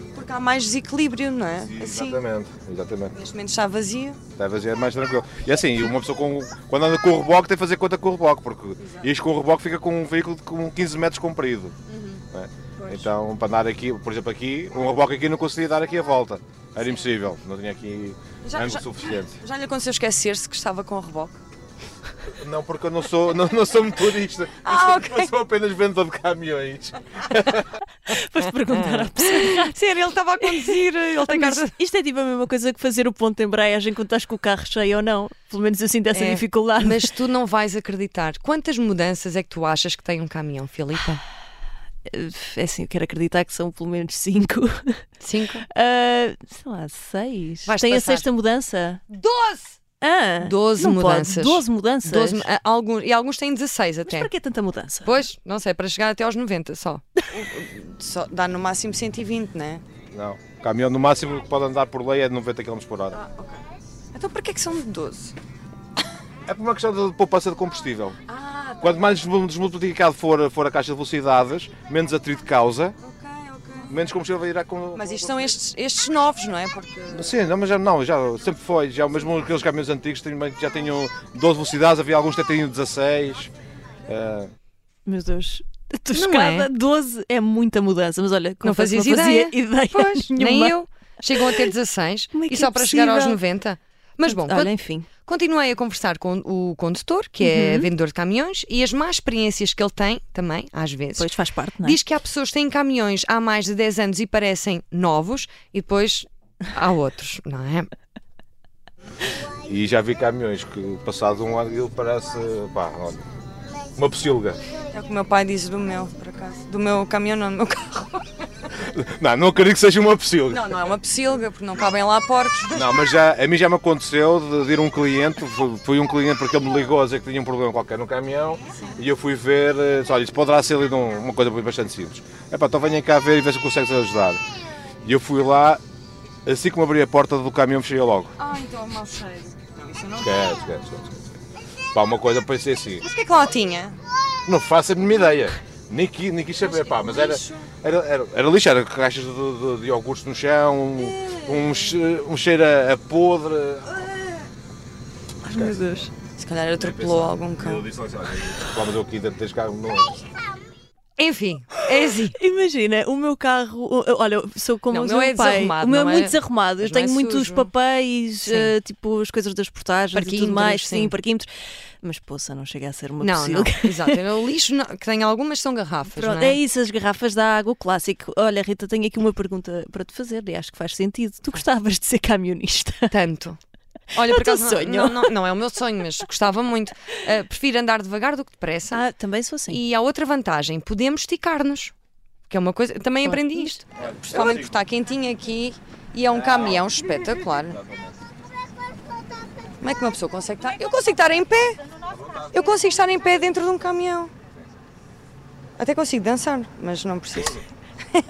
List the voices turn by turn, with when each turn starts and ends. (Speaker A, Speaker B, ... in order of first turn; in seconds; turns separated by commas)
Speaker A: 0.1-2.2, Speaker B: 1.6-3.1, Speaker A: 3.1-4.2, Speaker B: 4.4-11.8, Speaker A: 11.9-12.2, Speaker B: 12.3-19.4, Speaker A: 12.8-13.1, Speaker A: 18.4-21.4, Speaker B: 22.3-27.7, Speaker A: 24.6-25.3, Speaker C: 28.1-29.7, Speaker A: 28.7-31.7, Speaker C: 30.4-37.1, Speaker A: 36.1-41.2, Speaker C: 42.1-45.1, Speaker A: 45.2-45.6, Speaker C: 45.7-49.0, Speaker A: 47.6-48.3, Speaker A: 49.1-49.8, Speaker C: 50.0-52.5, Speaker A: 50.4-54.3, Speaker C: 54.1-55.1, Speaker A: 55.0-59.8, Speaker B: 60.1-63.2, Speaker A: 63.1-63.6, Speaker A: 64.1-65.4, Speaker B: 66.5-68.2, Speaker A: 68.3-69.0, Speaker B: 68.8-73.0, Speaker A: 73.0-73.9, Speaker B: 73.9-75.5, Speaker A: 74.9-77.2, Speaker B: 77.1-83.5, Speaker B: 84.1-84.5, Speaker C: 85.0-90.8, Speaker A: 86.1-86.7, Speaker A: 88.6-94.7, Speaker C: 91.3-91.7, Speaker C: 92.3-93.4, Speaker C: 94.2-95.1, Speaker A: 95.2-101.3, Speaker C: 97.4-97.9, Speaker C: 101.2-102.0, Speaker A: 101.8-107.9, Speaker B: 109.6-113.3, Speaker B: 114.0-114.6, Speaker A: 114.9-118.2, Speaker B: 118.8-120.8, Speaker A: 120.5-123.1, Speaker B: 122.7-134.4, Speaker B: 135.0-135.8, Speaker B: 136.5-138.3, Speaker A: 138.4-140.6, Speaker B: 140.2-141.3, Speaker B: 141.9-143.0, Speaker A: 143.0-144.0, Speaker B: 144.5-154.1, Speaker A: 146.6-147.7, Speaker A: 151.1-151.9, Speaker C: 155.4-156.1, Speaker B: 155.5-155.9, Speaker A: 156.4-157.9, Speaker B: 156.8-160.3, Speaker A: 161.2-162.4, Speaker C: 162.3-171.5, Speaker A: 164.9-167.7, Speaker A: 168.4-168.7, Speaker A: 170.1-171.1, Speaker C: 172.0-174.2, Speaker A: 173.2-176.6, Speaker C: 176.1-183.1, Speaker A: 183.1-183.6, Speaker A: 184.1-189.0, Speaker C: 184.2-185.4, Speaker C: 188.9-189.8, Speaker A: 189.7-191.9, Speaker A: 192.5-197.8, Speaker C: 193.2-193.8, Speaker B: 194.1-194.7, Speaker A: 199.8-201.8, Speaker A: 202.5-204.3, Speaker A: 205.8-207.6